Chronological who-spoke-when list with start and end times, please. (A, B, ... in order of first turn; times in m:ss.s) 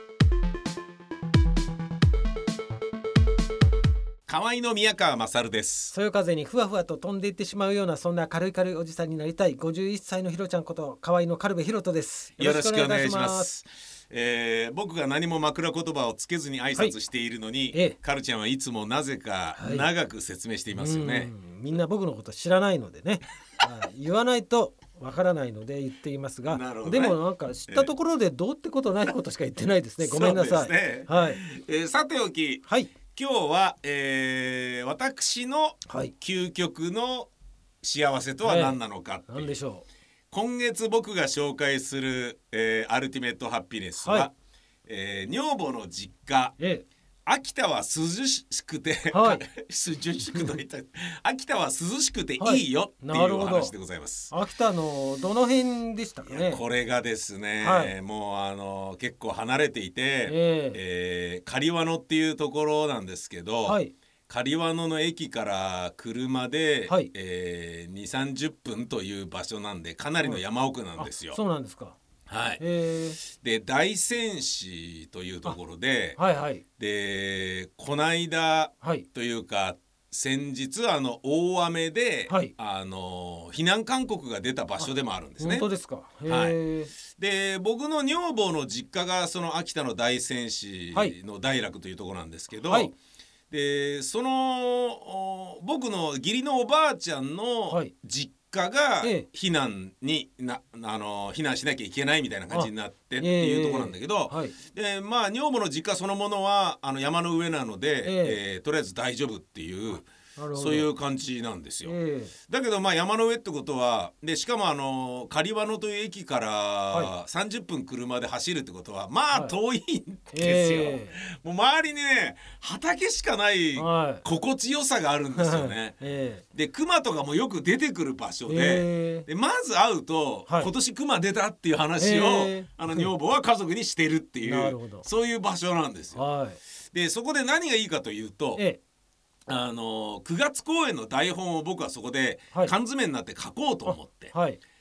0:04.3-0:05.9 A
0:05.9-0:13.5 B
0:12.4-0:21.3 A
0:19.6-0:19.8 B
0:20.8-0:31.4 B
0:26.5-0:27.9 A
0:30.0-0:37.3 A
0:32.7-0:32.9 B
0:35.9-0:36.1 B
0:37.8-0:39.5 A
0:38.4-0:38.8 B
0:39.3-0:39.8 B
0:40.3-0:44.3 A
0:44.0-0:44.3 B
0:44.9-0:46.6 A
0:46.6-0:46.8 B
0:47.2-0:54.3 A
0:49.1-0:49.4 B
0:52.4-0:53.7 B
0:54.3-0:56.6 B
0:56.2-1:11.4 A
0:57.6-0:57.9 B
1:00.2-1:00.8 B
1:03.6-1:03.9 B
1:11.0-1:12.0 B
1:12.3-1:12.6 A
1:12.6-1:13.2 B
1:13.2-1:16.2 A
1:16.2-1:16.6 B
1:16.8-1:25.7 A
1:22.3-1:22.5 B
1:25.4-1:26.9 B
1:26.3-1:32.9 A
1:32.7-1:32.9 B
1:33.5-1:52.0 A
1:39.0-1:39.3 B
1:42.5-1:44.6 B
1:48.0-1:48.4 B
1:50.4-1:50.9 B
1:51.8-1:52.3 B
1:52.5-2:06.0 A
2:00.3-2:01.2 B
2:03.7-2:04.2 B
2:05.3-2:06.4 B
2:06.5-2:16.2 A
2:08.5-2:09.3 B
2:12.0-2:13.1 B
2:14.4-2:15.0 B
2:16.1-2:16.6 B
2:16.9-2:18.6 A
2:19.5-2:24.3 A
2:23.8-2:24.6 B